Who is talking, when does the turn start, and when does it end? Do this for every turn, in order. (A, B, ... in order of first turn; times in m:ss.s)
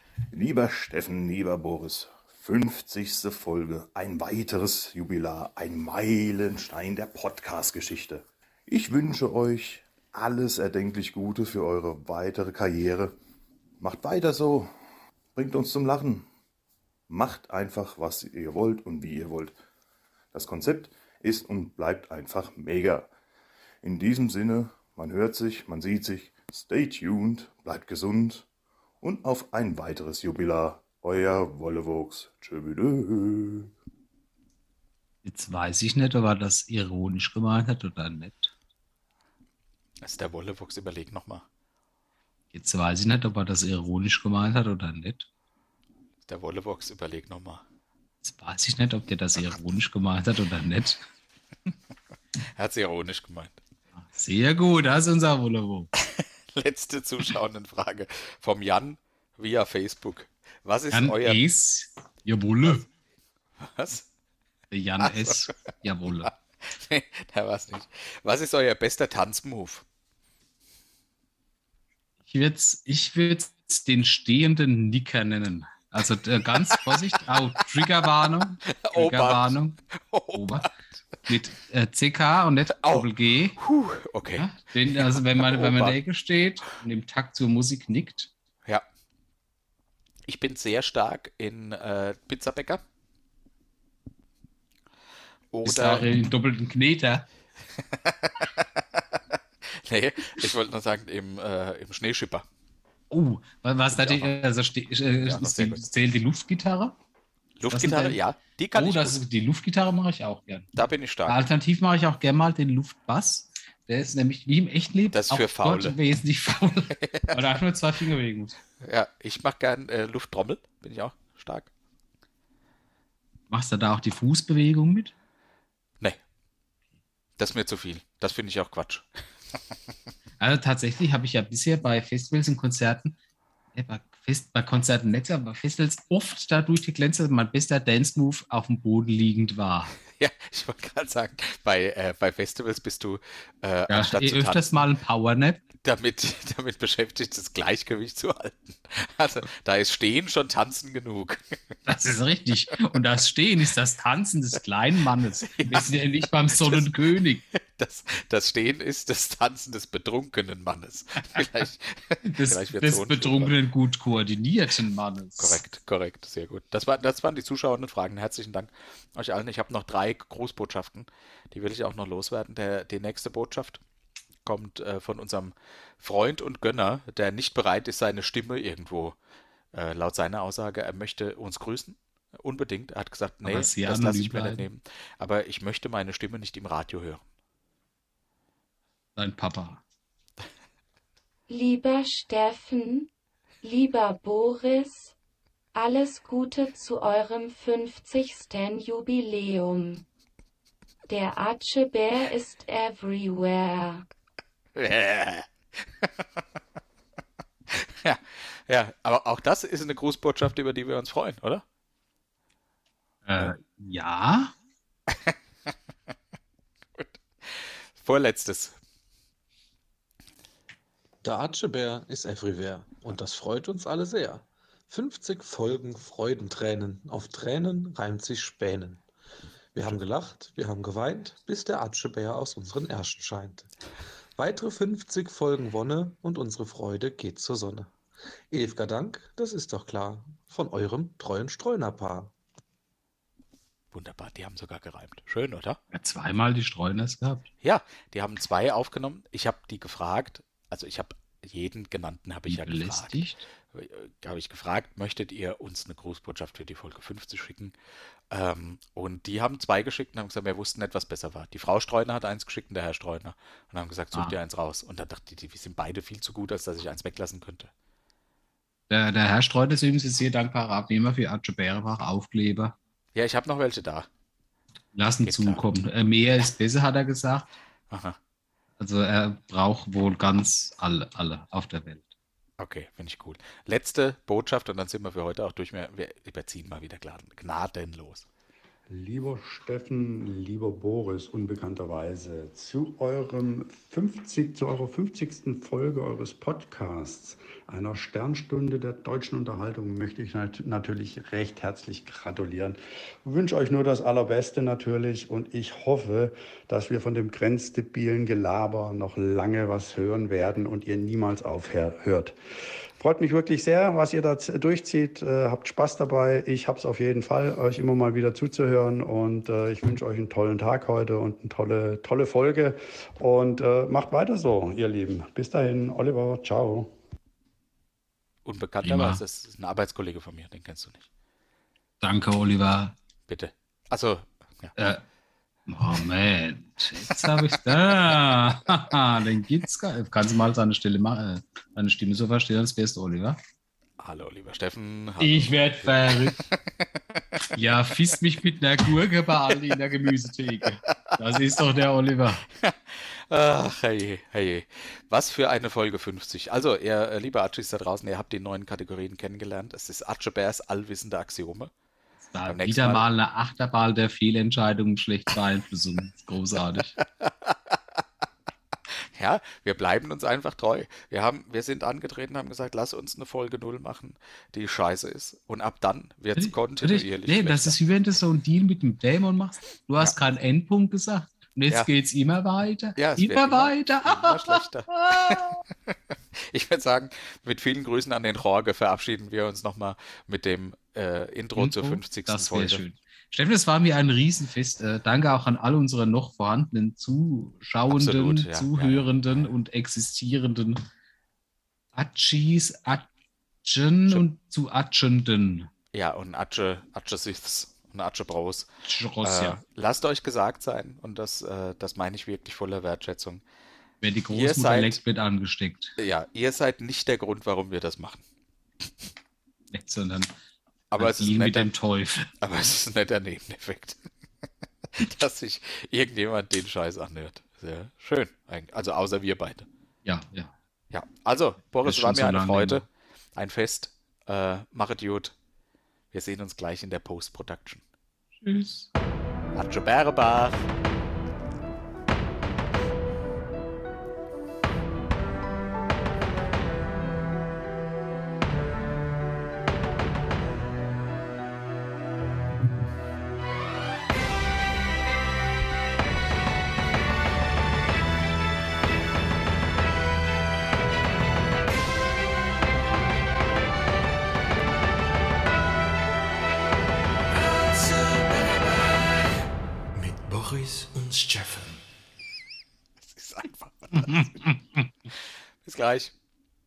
0:00.3-0:13.1 A
0:13.8-0:14.7 A
0:15.4-0:16.2 A
0:17.1-0:19.6 A
0:20.3-0:23.1 A
0:23.8-0:28.4 A
0:29.0-0:33.7 A
0:35.2-0:38.5 B
0:40.0-0:41.4 C
0:42.5-0:45.3 B
0:46.2-0:47.6 C
0:48.2-0:51.0 B
0:52.6-0:53.6 C
0:53.9-0:55.9 B
0:56.0-1:01.4 C
1:00.9-1:02.8 B
1:03.6-1:04.1 C
1:04.7-1:06.3 B
1:05.0-1:05.5 C
1:06.2-1:09.8 C
1:12.2-1:19.8 B
1:18.7-1:20.7 C
1:20.3-1:23.6 B
1:22.8-1:26.0 C
1:24.4-1:28.3 B
1:30.3-1:32.8 C
1:35.5-1:36.2 C
1:35.6-1:37.2 B
1:38.0-1:39.0 C
1:39.8-1:42.4 C
1:43.1-1:46.9 B
1:43.9-1:44.4 C
1:45.2-1:45.8 C
1:47.6-1:49.2 C
1:47.7-1:48.2 B
1:48.7-1:50.7 B
1:50.7-1:51.4 C
1:51.2-1:58.6 B
1:55.1-1:56.0 C
1:57.0-1:57.4 C
1:58.8-2:01.7 C
2:03.5-2:05.1 B
2:07.4-2:09.0 C
2:10.4-2:13.2 B
2:13.7-2:19.9 B
2:20.1-2:24.8 C
2:23.9-2:25.6 B
2:25.8-2:31.7 C
2:31.8-2:37.4 B
2:35.5-2:35.9 C
2:36.5-2:36.9 C
2:37.5-2:43.5 C
2:42.2-2:45.6 B
2:45.4-2:53.8 C
2:54.4-2:59.2 C
2:59.7-3:07.2 C
3:03.4-3:04.7 B
3:09.2-3:09.8 B
3:11.5-3:13.1 D
3:13.6-3:15.1 D
3:15.7-3:20.0 D
3:21.1-3:24.0 D
3:24.8-3:25.5 C
3:27.7-3:31.6 C
3:33.2-3:34.5 B
3:37.0-3:38.8 C
3:41.2-3:49.0 E
3:49.7-3:53.7 E
3:54.4-3:57.9 E
3:58.5-4:02.3 E
4:03.9-4:05.8 C
4:05.9-4:07.5 B
4:07.6-4:13.2 C
4:12.5-4:13.4 B
4:13.7-4:17.7 C
4:18.3-4:27.7 C
4:28.9-4:32.8 B
4:33.1-4:34.1 C
4:34.9-4:37.5 B
4:35.2-4:35.6 C
4:37.9-4:38.2 C
4:38.8-4:42.1 B
4:42.6-4:48.3 C
4:48.9-5:12.4 F
5:13.0-5:26.9 F
5:28.4-5:31.1 C
5:28.8-5:29.2 B
5:32.0-5:32.9 B
5:33.3-5:34.7 C
5:34.8-5:35.0 B
5:35.7-5:43.4 B
5:44.0-5:46.6 C
5:45.2-5:46.4 B
5:47.5-5:52.4 B
5:52.6-6:01.7 C
6:02.2-6:06.9 B
6:02.4-6:03.0 C
6:07.2-6:07.5 C
6:09.2-6:17.8 C
6:16.3-6:25.6 B
6:23.0-6:25.5 C
6:26.4-6:32.8 C
6:31.6-6:40.8 B
6:37.9-6:39.1 C
6:41.9-6:43.1 B
6:43.6-6:45.7 B
6:45.9-6:48.7 C
6:48.8-6:49.6 B
6:49.2-6:53.4 C
6:54.0-6:55.9 B
6:54.3-6:55.0 C
6:56.0-6:58.2 C
6:59.7-7:00.3 B
7:00.9-7:01.7 C
7:01.0-7:02.3 B
7:02.4-7:04.0 C
7:05.0-7:09.7 C
7:10.0-7:10.5 B
7:10.9-7:15.3 C
7:11.8-7:12.8 B
7:16.1-7:17.8 C
7:18.4-7:18.9 B
7:19.5-7:20.7 C
7:47.3-7:49.2 G
7:49.9-7:51.8 G
7:53.0-7:54.3 C
7:53.9-7:54.9 B
7:55.6-7:56.1 C